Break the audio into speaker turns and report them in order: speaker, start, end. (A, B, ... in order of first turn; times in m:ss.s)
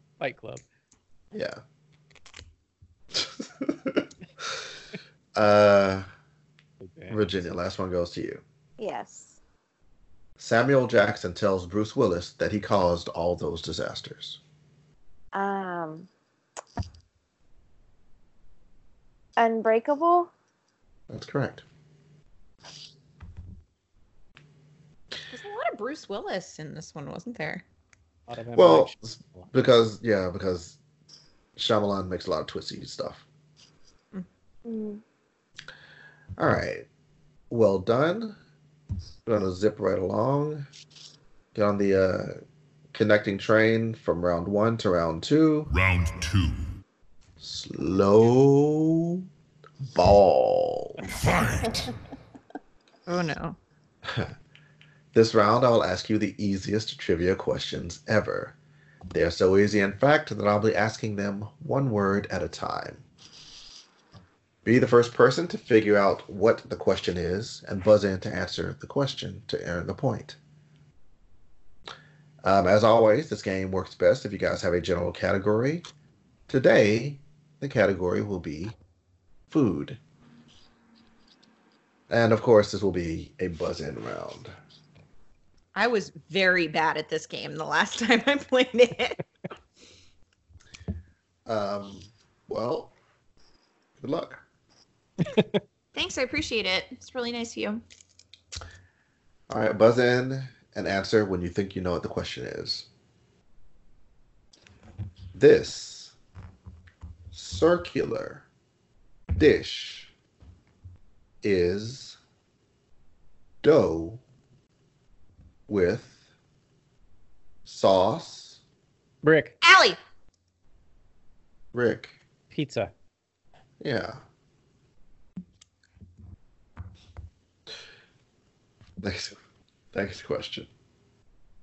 0:00.2-0:00.6 A
0:01.3-0:01.6 B
0:03.1-0:04.4 B
0:05.3-0:06.0 B
0:06.8-0:07.2 A
0:07.1-0:08.4 B
0:08.8-0:09.4 C
0:10.4-0:14.4 B
0:15.3-0:16.1 C
0:19.4-0:20.3 C
0:21.1-0:21.6 B
0:25.3-0:27.6 D
0:28.3-0:29.5 A
0:28.6-0:30.8 B
0:31.6-0:33.2 B
0:34.6-0:35.0 C
0:36.4-0:36.9 B
0:37.5-0:38.4 B
0:39.2-0:40.7 B
0:41.5-0:42.4 B
0:42.9-0:45.7 B
0:45.7-0:46.8 E
0:47.4-0:49.2 B
0:49.9-0:51.0 B
0:51.0-0:51.9 E
0:53.1-0:53.6 D
0:54.0-0:54.3 B
0:55.1-0:58.6 B
0:59.1-1:03.0 B
1:04.6-1:10.4 B
1:12.4-1:15.8 B
1:16.5-1:18.7 B
1:19.5-1:20.0 B
1:22.1-1:24.5 B
1:25.7-1:29.2 D
1:31.4-1:32.9 B
1:34.0-1:34.4 B
1:35.9-1:37.8 D
1:39.5-1:42.9 B
1:45.3-1:46.1 B
1:47.3-1:48.4 B
1:49.4-1:50.1 B
1:51.4-1:52.2 B
1:53.6-1:54.2 B
1:55.7-1:56.2 B
1:57.6-1:58.6 B
1:59.2-1:59.5 A
1:59.6-2:00.0 D
2:01.7-2:02.1 B
2:02.5-2:02.9 A
2:03.8-2:04.2 B
2:09.0-2:09.4 B
2:09.9-2:10.7 B